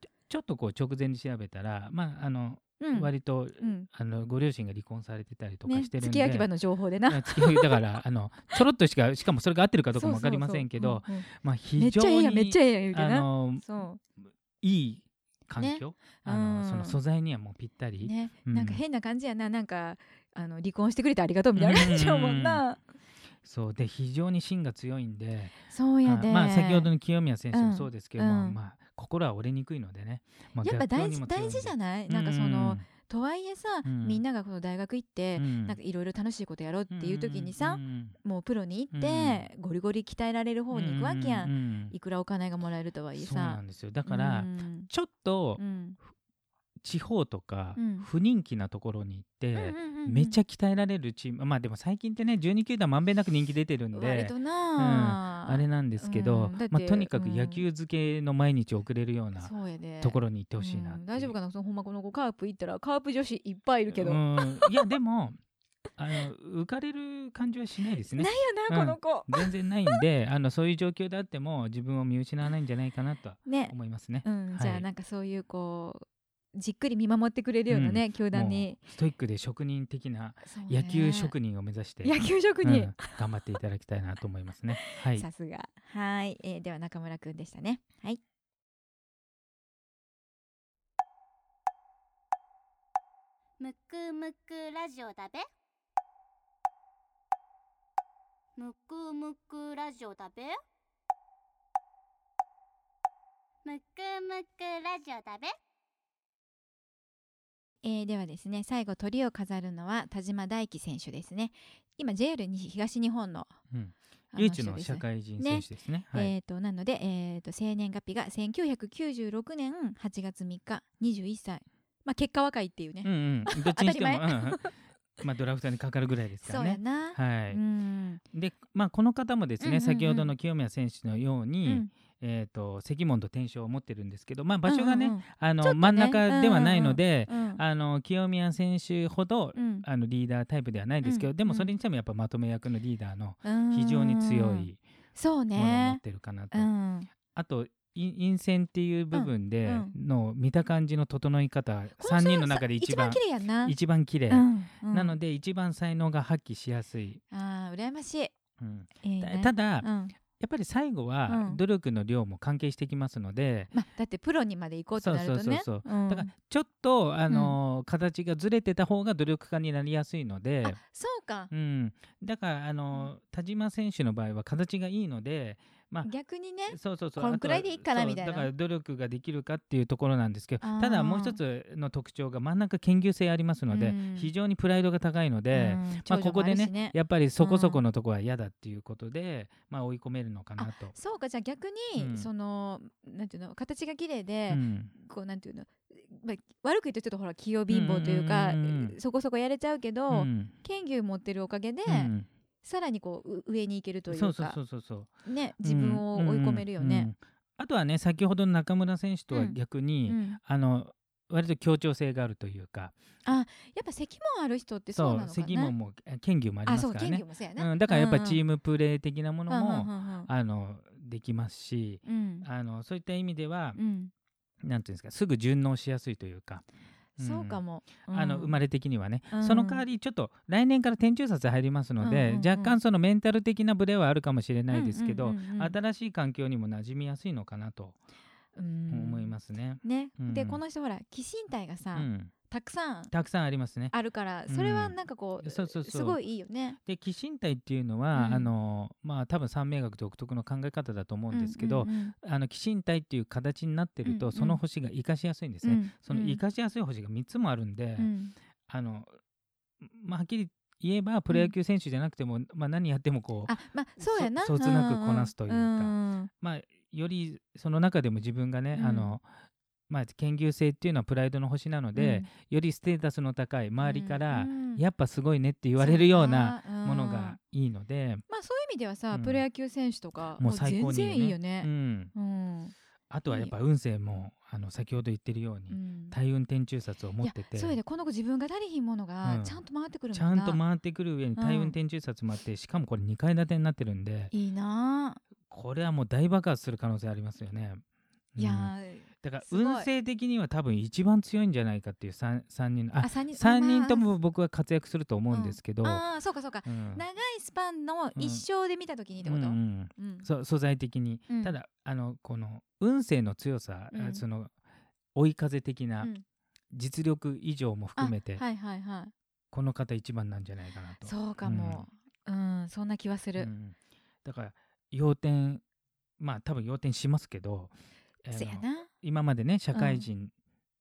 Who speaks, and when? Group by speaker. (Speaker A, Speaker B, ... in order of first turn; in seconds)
Speaker A: 0.3-6.5, 7.1-18.8, 21.6-22.6, 23.4-32.8, 33.8-34.2, 35.4-35.8, 36.9-38.1, 38.9-39.5, 40.7-41.9, 43.1-45.6, 46.8-61.3, 63.9-65.4, 66.0-74.8, 77.7-85.3, 113.7-116.3, 123.0-127.6, 128.3-144.8, 145.5-146.7, 147.3-157.2, 158.6-163.7, 165.0-170.8, 171.5-176.1, 176.7-190.9, 191.9-192.3, 194.5-194.9, 197.7-198.9, 200.1-200.5, 201.8-202.3, 204.1-205.1, 205.6-212.9, 214.9-223.8, 224.6-226.6, 227.2-237.9, 238.9-240.6, 241.9-242.3, 243.1-243.9, 244.5-246.2, 246.8-258.1, 258.7-259.1, 259.8-269.2, 269.9-278.2, 279.1-279.4, 280.4-282.1, 283.1-287.8, 289.2-289.6, 290.1-294.3, 295.5-297.8, 298.3-306.0, 306.6-307.0, 308.1-308.4, 309.2-314.5, 315.1-316.1, 316.7-318.4, 319.5-321.8, 323.4-325.6, 326.2-330.3
Speaker B: 2.8-3.9, 5.7-7.8, 9.9-14.0, 15.6-17.0, 18.0-22.8, 25.7-26.9, 27.5-28.6, 30.6-44.9, 45.6-46.0, 47.8-48.1, 49.5-50.4, 53.9-57.6, 59.4-64.9, 68.1-70.0, 73.5-78.8, 80.4-81.3, 82.0-83.2, 84.7-88.2, 107.8-113.6, 114.3-124.7, 126.4-128.2, 129.6-130.3, 131.6-131.9, 134.6-137.6, 139.5-139.8, 141.0-141.7, 143.4-146.0, 146.5-147.1, 149.1-149.9, 152.0-153.8, 154.3-155.2, 157.3-158.3, 159.0-160.2, 161.3-161.6, 163.7-166.3, 167.3-167.5, 170.6-171.5, 176.0-178.5, 180.6-181.4, 183.7-184.3, 185.5-187.8, 190.6-204.6, 205.2-207.1, 209.3-210.4, 213.2-215.7, 216.6-218.4, 219.5-220.3, 222.1-222.5, 223.7-224.1, 227.2-228.5, 229.3-229.8, 232.0-232.8, 234.7-235.8, 238.6-243.1, 243.9-246.8, 248.1-248.5, 251.3-252.1, 254.0-254.6, 255.6-256.4, 258.0-258.3, 263.5-266.3, 268.7-269.1, 271.9-272.3, 273.8-274.8, 275.8-277.4, 278.3-282.7, 283.3-283.5, 285.7-286.1, 287.2-290.6, 291.4-291.7, 294.3-295.2, 298.4-299.9, 303.0-304.1, 305.3-310.3, 311.3-311.6, 313.9-314.2, 318.0-319.1, 321.0-323.5, 328.3-328.9, 329.7-330.1
Speaker C: 93.6-95.5, 98.6-100.5, 103.6-105.5